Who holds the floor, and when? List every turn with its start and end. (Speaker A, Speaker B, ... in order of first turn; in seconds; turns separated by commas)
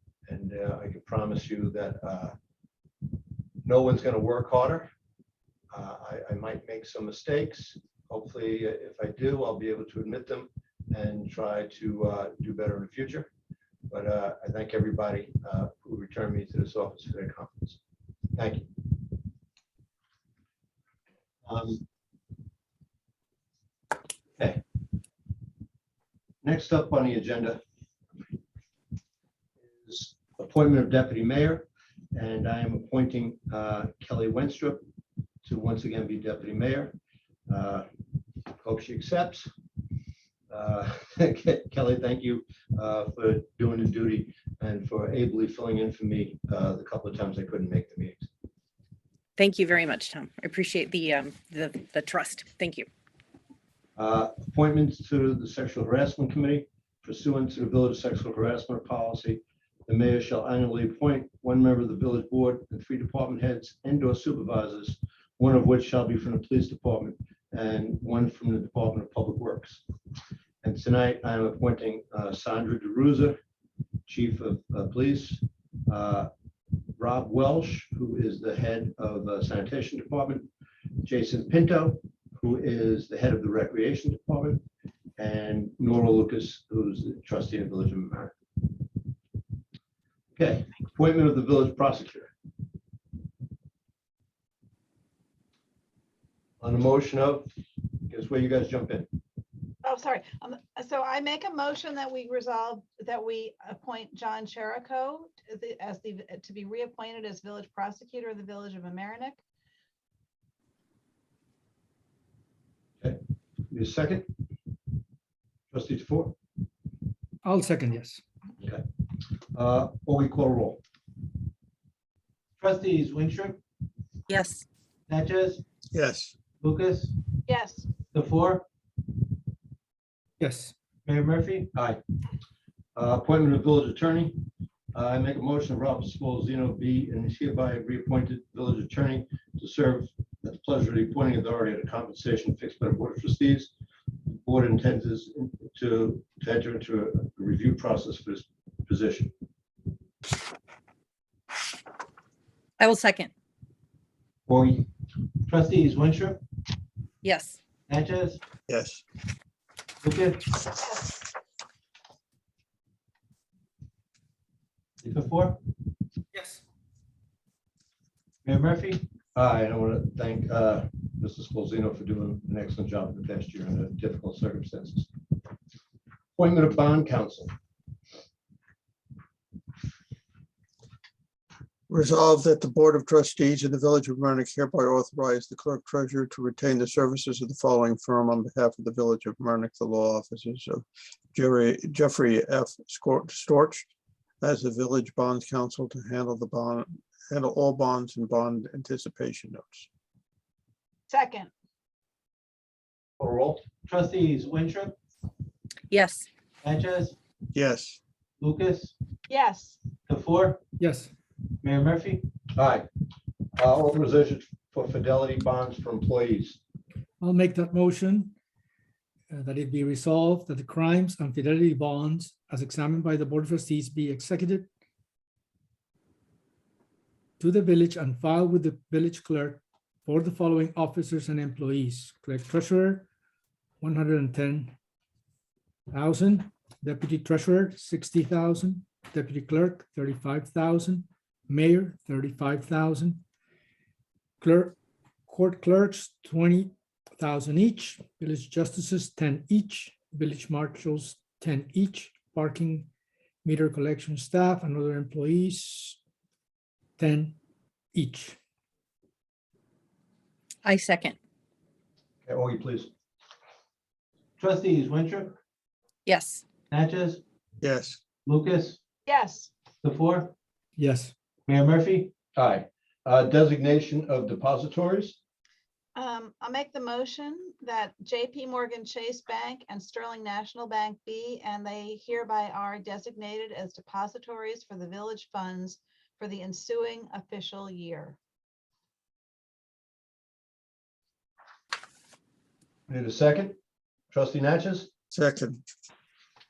Speaker A: 0.3-2.4, Speaker A: 3.6-4.9, Speaker A: 5.7-13.3, Speaker A: 13.9-17.8, Speaker A: 18.4-18.7, Speaker A: 21.4-21.8, Speaker A: 26.4-27.6, Speaker A: 29.8-34.8, Speaker A: 35.4-37.0, Speaker A: 37.5-37.9, Speaker A: 38.6-39.5, Speaker A: 40.5-48.3, Speaker B: 49.4-52.9, Speaker A: 54.0-69.8, Speaker A: 70.6-73.4, Speaker A: 74.1-76.3, Speaker A: 77.0-80.5, Speaker A: 81.0-84.6, Speaker A: 85.2-88.3, Speaker A: 90.4-92.3, Speaker A: 96.6-97.5, Speaker A: 98.1-99.1, Speaker C: 99.8-109.4, Speaker A: 113.0-114.3, Speaker A: 115.7-116.3, Speaker D: 117.4-118.2, Speaker A: 119.5-120.8, Speaker E: 122.6-123.6, Speaker B: 124.3-124.6, Speaker E: 125.1-125.6, Speaker F: 125.9-126.3, Speaker E: 126.6-127.2, Speaker C: 127.5-128.0, Speaker E: 128.1-128.6, Speaker D: 130.4-130.7, Speaker E: 131.1-131.7, Speaker A: 131.7-132.0, Speaker A: 133.0-134.4, Speaker A: 134.9-143.7, Speaker A: 144.3-149.3, Speaker B: 152.8-153.3, Speaker A: 154.5-154.8, Speaker E: 155.5-156.4, Speaker B: 157.2-157.6, Speaker E: 157.9-158.4, Speaker F: 158.7-159.0, Speaker E: 160.0-160.6, Speaker E: 165.0-165.6, Speaker E: 168.4-169.0, Speaker A: 169.3-175.1, Speaker A: 176.4-177.5, Speaker F: 181.9-193.9, Speaker F: 194.4-199.9, Speaker C: 201.1-201.5, Speaker A: 203.2-203.6, Speaker E: 203.8-204.9, Speaker B: 205.9-206.3, Speaker E: 206.6-207.2, Speaker F: 207.5-208.0, Speaker E: 208.4-208.9, Speaker C: 209.3-209.8, Speaker E: 210.1-210.6, Speaker D: 210.8-211.1, Speaker E: 211.6-212.3, Speaker A: 212.6-212.9, Speaker A: 213.6-216.6, Speaker D: 217.2-218.3, Speaker D: 219.3-224.7, Speaker D: 227.4-233.1, Speaker D: 233.8-234.7, Speaker D: 235.9-243.2, Speaker D: 244.4-244.8, Speaker D: 245.3-252.9, Speaker D: 253.4-256.0, Speaker D: 257.0-257.4, Speaker D: 257.9-258.4, Speaker B: 260.6-261.1, Speaker A: 262.3-262.9, Speaker E: 264.4-265.4, Speaker B: 266.1-266.4, Speaker E: 266.7-267.2, Speaker F: 267.6-268.0, Speaker E: 268.3-268.8, Speaker C: 269.1-269.5, Speaker E: 269.8-270.3, Speaker D: 270.8-271.1, Speaker E: 271.5-272.1, Speaker A: 272.4-275.2, Speaker C: 275.9-288.2, Speaker A: 292.9-293.6, Speaker A: 294.1-294.9, Speaker F: 295.1-295.6